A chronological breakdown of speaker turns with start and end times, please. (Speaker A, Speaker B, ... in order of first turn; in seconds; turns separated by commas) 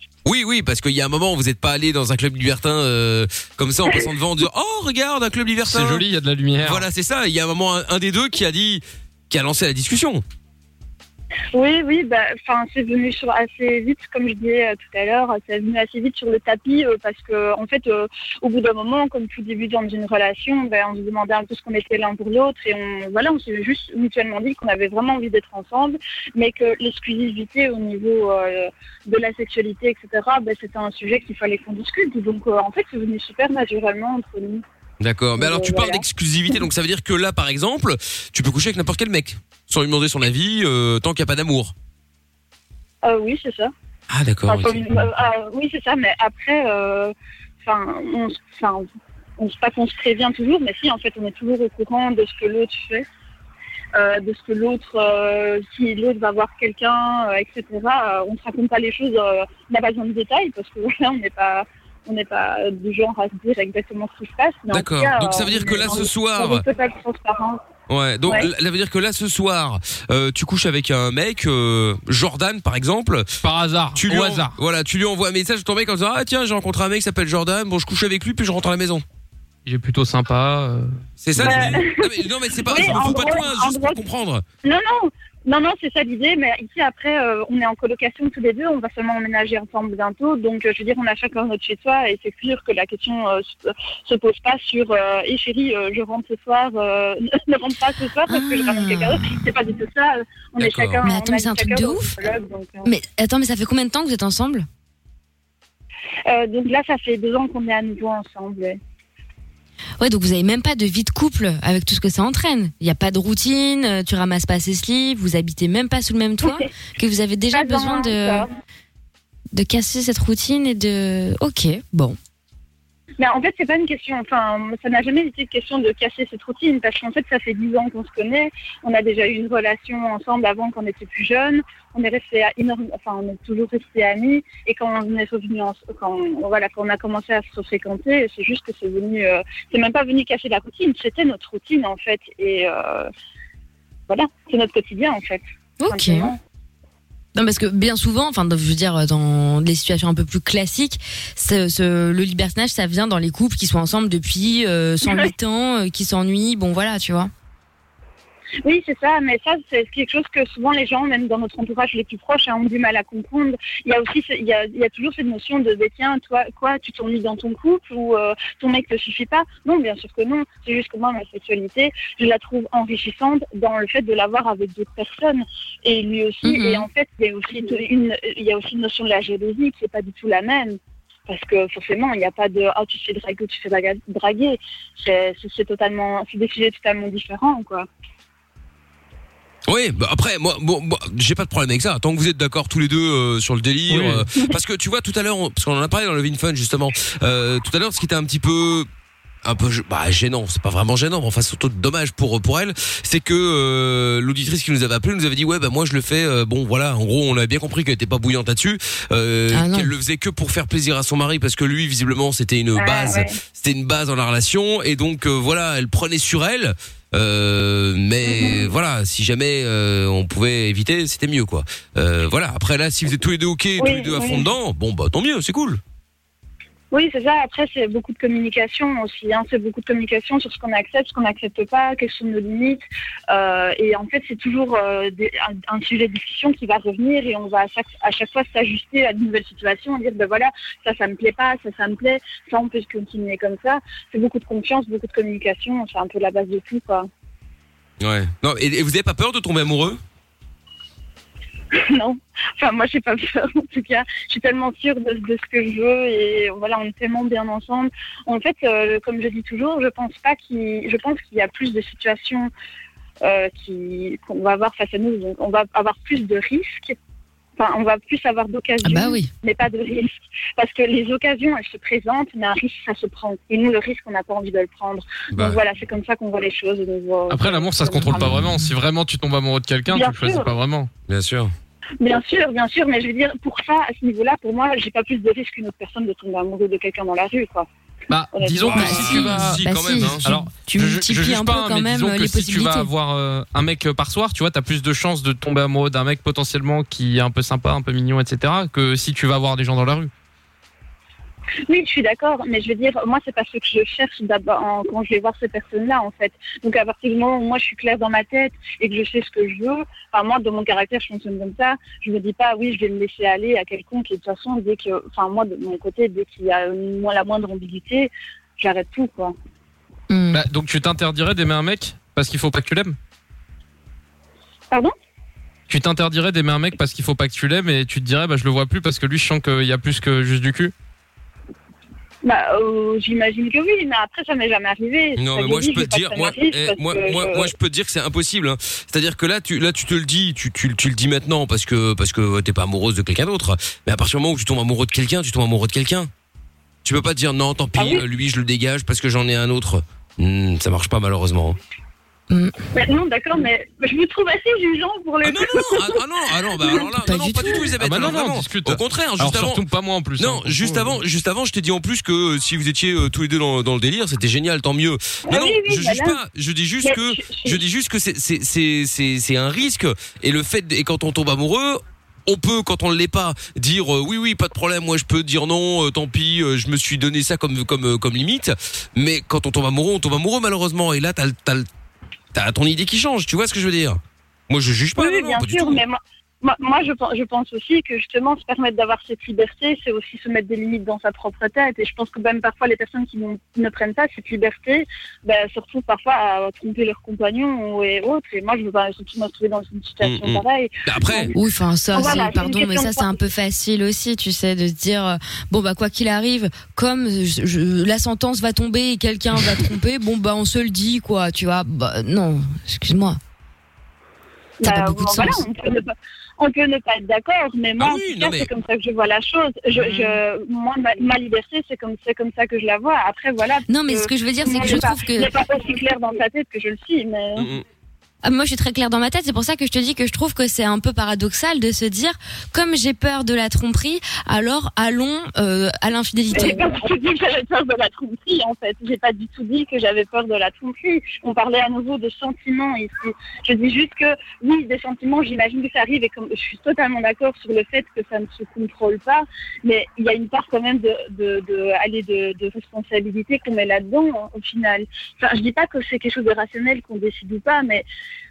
Speaker A: 0.2-6.0, Speaker B: 5.7-6.8, Speaker A: 6.6-10.2, Speaker C: 11.5-34.6, Speaker A: 35.0-41.7, Speaker C: 35.4-36.0, Speaker C: 43.0-43.7, Speaker A: 44.1-45.0, Speaker C: 44.5-48.9, Speaker C: 49.4-53.0, Speaker C: 53.9-67.6, Speaker A: 64.7-66.6, Speaker A: 67.9-73.3, Speaker B: 73.4-74.6, Speaker A: 74.0-79.0, Speaker B: 79.7-80.9, Speaker A: 81.2-84.4, Speaker C: 81.4-82.1, Speaker C: 82.6-84.0, Speaker C: 84.6-102.9, Speaker D: 98.3-99.5, Speaker A: 100.6-101.0, Speaker D: 101.0-102.1, Speaker D: 102.8-104.7, Speaker C: 106.3-108.8, Speaker D: 110.0-118.5, Speaker C: 117.5-118.5, Speaker D: 119.5-122.2, Speaker C: 123.2-143.1, Speaker C: 144.1-146.4, Speaker D: 145.8-146.3, Speaker D: 147.3-157.3, Speaker C: 155.0-155.3, Speaker C: 158.6-187.9, Speaker D: 176.4-176.9, Speaker A: 189.7-198.9, Speaker B: 193.9-194.2, Speaker A: 199.4-225.8, Speaker D: 209.5-209.9, Speaker C: 212.8-213.3, Speaker C: 218.2-218.7, Speaker C: 223.8-224.5, Speaker C: 226.9-247.1, Speaker A: 248.0-250.0, Speaker C: 251.7-262.5, Speaker C: 263.2-266.9, Speaker C: 267.6-278.3, Speaker D: 268.8-269.3, Speaker A: 275.3-275.6, Speaker B: 277.3-280.9, Speaker D: 278.1-278.7, Speaker C: 279.9-280.5, Speaker A: 281.1-281.5, Speaker C: 282.0-287.7, Speaker B: 288.1-300.1, Speaker C: 288.3-289.1, Speaker A: 288.7-290.2, Speaker D: 288.7-292.9, Speaker C: 301.7-319.3, Speaker D: 320.1-320.4, Speaker B: 320.3-323.0, Speaker B: 325.7-330.7, Speaker C: 332.2-337.5, Speaker A: 335.2-346.1, Speaker A: 346.8-351.6, Speaker C: 347.8-348.0, Speaker C: 352.7-356.0, Speaker A: 355.2-359.6, Speaker C: 356.6-356.9, Speaker D: 356.8-357.7, Speaker B: 357.8-361.0, Speaker A: 360.2-381.7, Speaker C: 365.3-366.2, Speaker C: 366.8-367.6, Speaker A: 382.3-385.8, Speaker C: 385.0-401.4, Speaker A: 400.0-401.3, Speaker D: 401.3-413.2, Speaker C: 401.9-403.2, Speaker C: 414.6-427.5, Speaker D: 414.6-415.4, Speaker A: 417.8-418.5, Speaker D: 423.7-425.3, Speaker A: 427.4-427.6, Speaker D: 428.2-436.6, Speaker C: 436.3-457.9